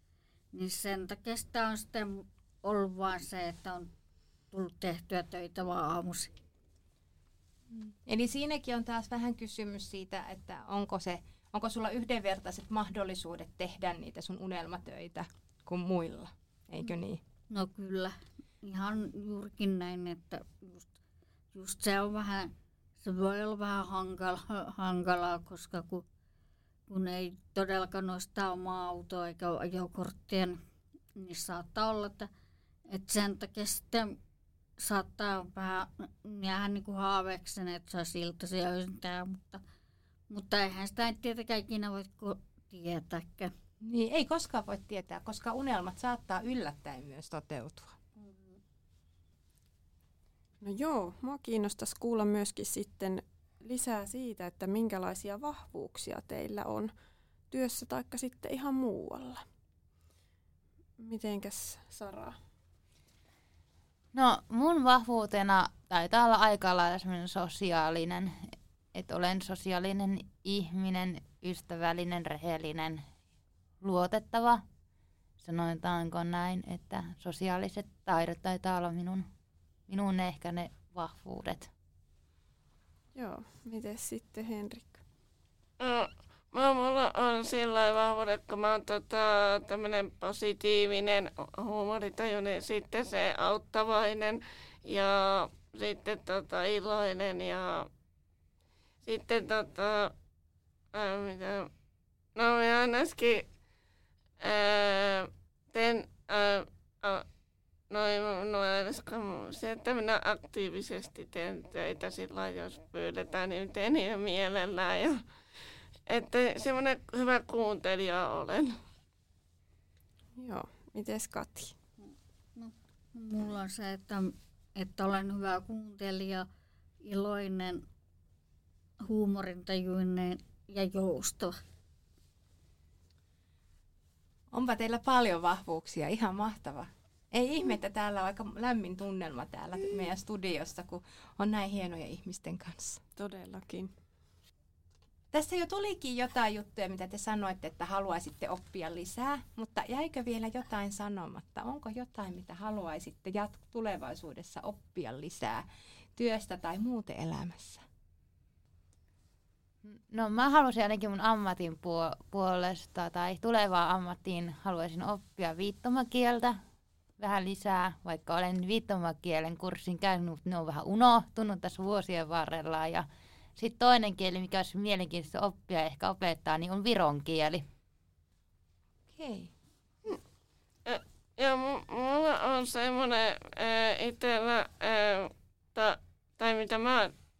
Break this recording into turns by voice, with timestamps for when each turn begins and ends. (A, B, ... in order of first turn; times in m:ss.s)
0:00.5-0:03.9 A
0:04.5-0:06.3 A
0:07.7-0:17.2 B
0:17.5-0:21.0 A
0:21.5-0:26.1 A
0:26.9-0:30.6 A
0:31.2-0:32.3 A
0:32.9-0:34.2 A
0:34.8-0:39.6 A
0:40.3-0:43.5 A
0:43.8-0:48.0 B
0:48.2-0:48.6 A
0:50.6-0:56.9 C
0:57.5-0:59.4 C
1:01.0-1:02.4 C
1:04.1-1:13.0 D
1:13.8-1:14.6 D
1:15.4-1:19.3 D
1:19.9-1:21.7 D
1:23.1-1:25.0 C
1:25.8-1:37.9 E
1:39.0-1:40.1 E
1:40.9-1:41.7 E
1:42.4-1:43.5 E
1:44.4-1:47.3 E
1:47.9-1:55.2 E
1:56.1-1:58.8 E
2:00.4-2:01.8 C
2:02.6-2:06.5 A
2:07.0-2:07.8 A
2:09.0-2:11.6 A
2:14.5-2:23.0 B
2:23.2-2:23.9 C
2:25.3-2:37.8 B
2:39.8-2:46.6 D
2:47.2-2:57.6 D
2:59.1-2:59.5 B
3:00.9-3:07.1 E